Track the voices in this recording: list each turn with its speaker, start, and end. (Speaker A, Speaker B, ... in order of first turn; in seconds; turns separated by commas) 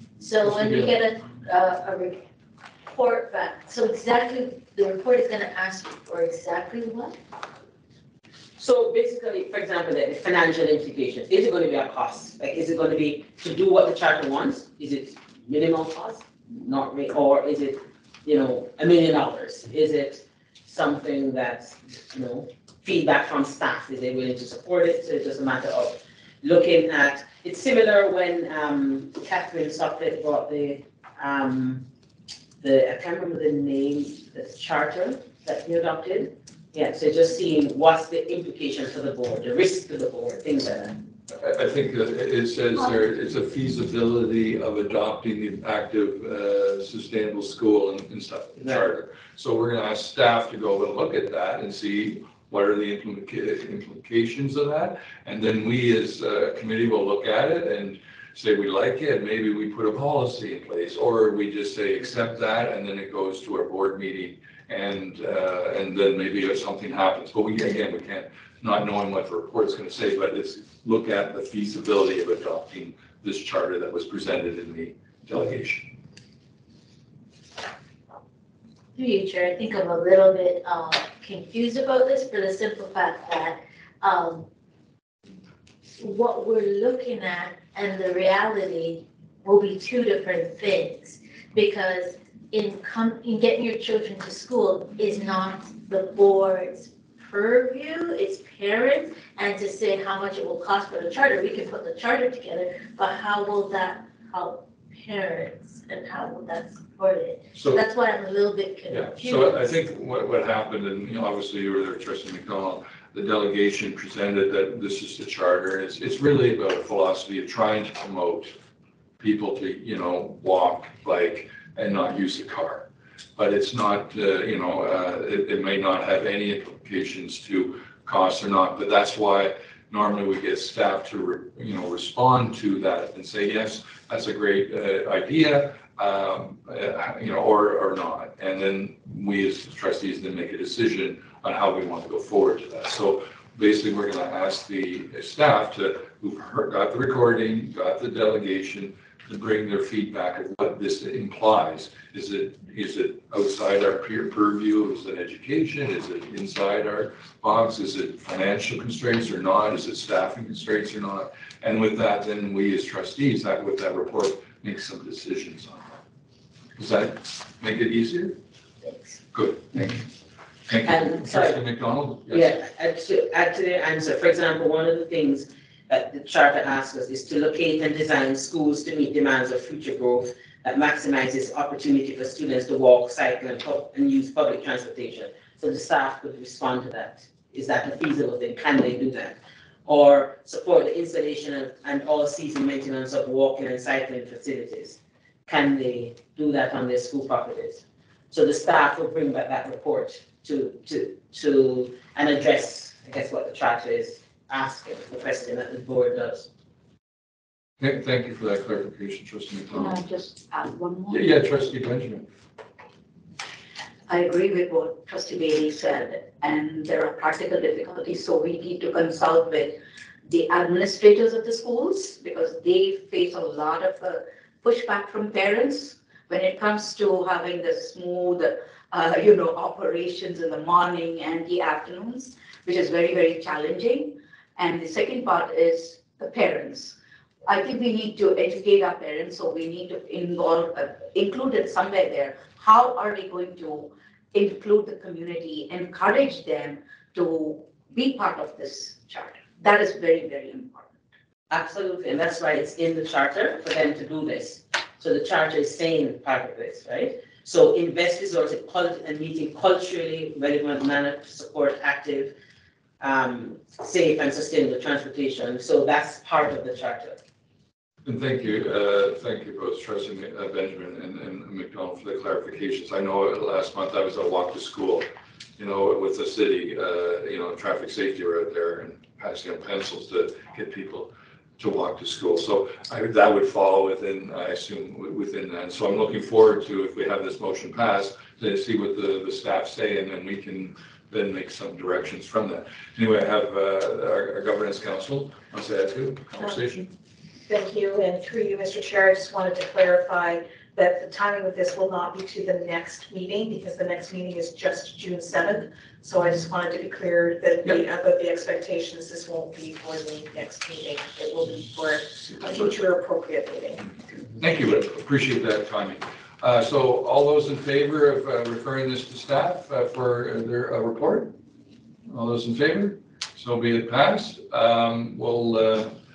Speaker A: 0.2-2.2, Speaker B: 0.4-1.0, Speaker A: 2.9-7.2, Speaker C: 8.6-31.9, Speaker C: 32.6-41.0, Speaker B: 41.3-75.9, Speaker A: 79.0-84.5, Speaker A: 86.0-109.6, Speaker B: 107.5-107.8, Speaker B: 108.9-118.6, Speaker B: 119.2-165.9, Speaker B: 166.8-168.4, Speaker A: 168.8-169.2, Speaker B: 169.3-170.1, Speaker B: 170.7-172.6, Speaker C: 170.8-171.6, Speaker C: 172.3-206.5, Speaker B: 207.8-210.0, Speaker D: 209.7-211.2, Speaker B: 211.1-212.3, Speaker D: 214.1-250.9, Speaker C: 251.5-262.3, Speaker C: 263.0-267.2, Speaker B: 268.1-275.1, Speaker B: 275.6-296.9, Speaker E: 297.5-313.9, Speaker B: 314.4-321.4, Speaker B: 322.1-325.9